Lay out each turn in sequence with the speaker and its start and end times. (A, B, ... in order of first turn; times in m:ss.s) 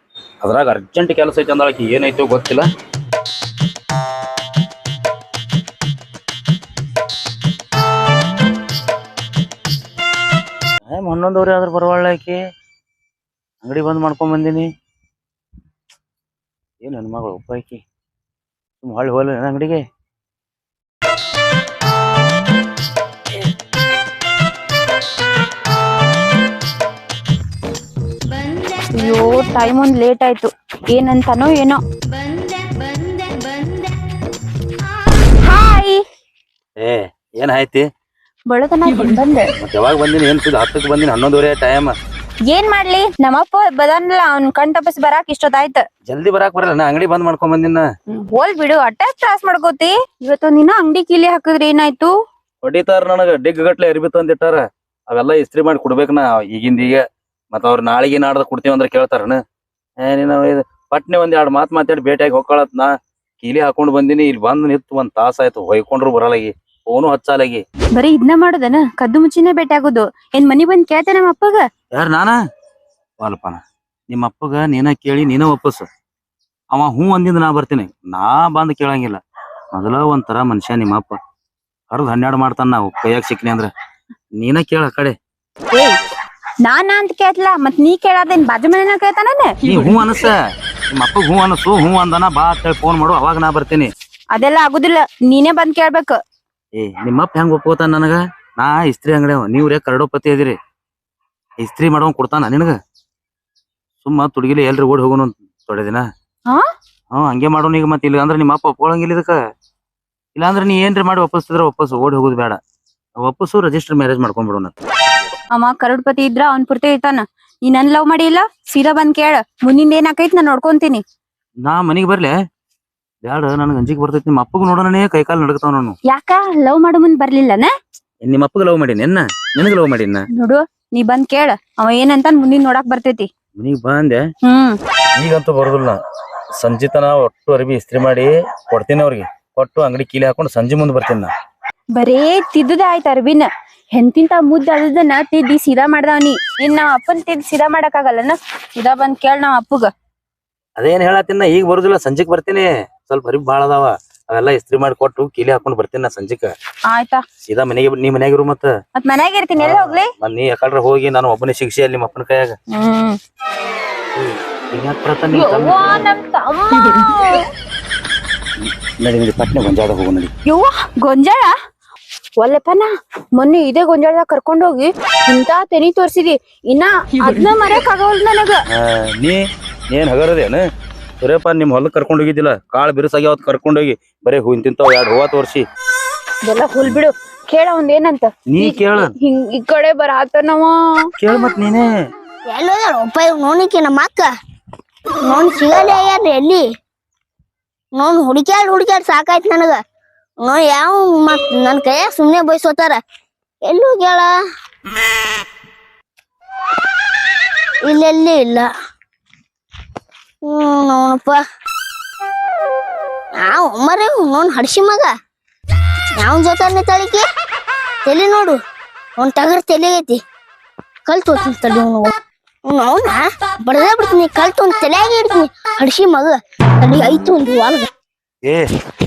0:00.4-0:02.7 A
0:10.9-0:12.4 A
0:13.6-0:14.7 A
0:16.8-0:17.8 A
0:18.8-0:19.8 A
0:28.9-0:31.8 B
0:35.4-0:36.0 B
0:36.8-0:37.9 A
0:38.5-0:39.5 B
0:39.6-0:41.9 A
0:42.5-0:45.8 B
0:46.1-0:47.9 A
0:48.1-0:52.1 B
0:52.6-0:59.4 A
1:00.0-1:07.6 A
1:08.0-1:11.6 B
1:11.9-1:12.3 A
1:13.2-1:15.9 A
1:16.7-1:19.2 A
1:19.7-1:21.2 A
1:21.9-1:23.7 A
1:24.4-1:25.2 A
1:26.6-1:29.6 B
1:29.6-1:30.4 A
1:30.9-1:33.9 A
1:34.3-1:36.2 B
1:36.8-1:40.6 A
1:41.6-1:42.7 A
1:44.0-1:46.0 A
1:47.1-1:49.4 A
1:50.4-1:52.6 A
1:53.2-1:54.7 A
1:55.5-2:01.0 B
2:01.6-2:02.3 A
2:03.2-2:06.0 A
2:06.1-2:07.7 B
2:08.2-2:10.3 A
2:10.3-2:13.3 B
2:13.6-2:14.2 A
2:14.4-2:14.8 B
2:15.2-2:16.0 A
2:16.6-2:21.3 A
2:22.0-2:29.9 B
2:30.8-2:36.6 A
2:36.9-2:37.2 B
2:37.5-2:38.7 A
2:39.0-2:40.1 B
2:39.6-2:42.6 A
2:42.7-2:43.2 B
2:44.2-2:45.8 A
2:45.3-2:47.5 B
2:48.6-2:50.3 A
2:50.5-2:51.5 B
2:52.4-2:58.6 B
2:58.8-3:00.6 A
3:01.2-3:05.6 A
3:06.4-3:11.1 B
3:08.5-3:09.1 A
3:11.2-3:11.9 A
3:12.5-3:14.3 C
3:15.2-3:16.6 C
3:18.0-3:19.8 C
3:20.4-3:23.0 C
3:23.7-3:24.3 C
3:27.8-3:28.7 C
3:30.4-3:31.4 C
3:33.4-3:35.1 C
3:36.2-3:37.2 C
3:38.1-3:38.6 C
3:39.2-3:40.2 C
3:41.1-3:42.1 C
3:42.7-3:47.9 C